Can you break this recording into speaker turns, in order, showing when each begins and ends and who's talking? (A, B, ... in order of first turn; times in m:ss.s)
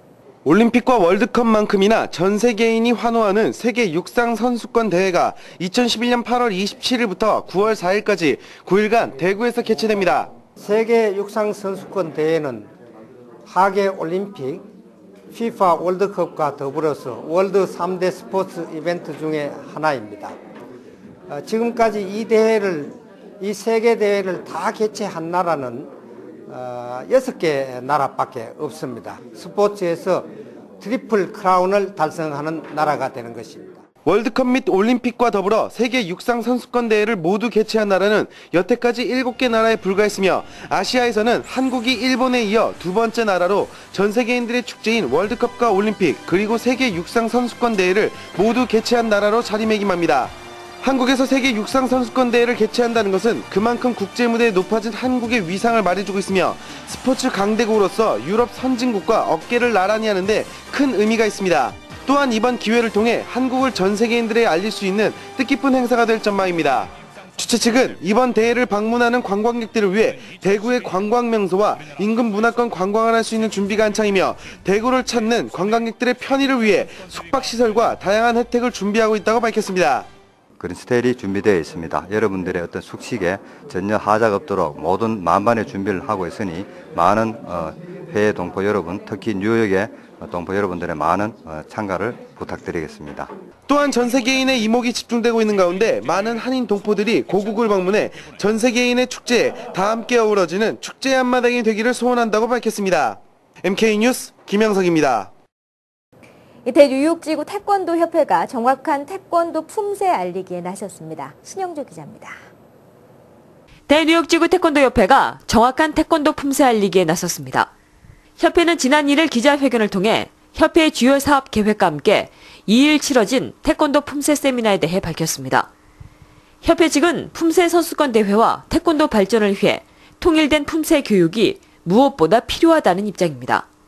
0:00.4-0:10.3 A
0:10.6-0:12.7 B
0:13.5-0:14.7 B
0:15.3-0:20.4 B
0:21.3-0:25.9 B
0:26.5-0:33.8 B
0:34.0-1:20.1 A
1:20.6-1:33.3 C
1:33.7-1:45.3 A
1:46.6-1:52.4 D
1:53.9-1:57.7 E
1:58.4-2:05.7 E
2:06.6-2:13.7 E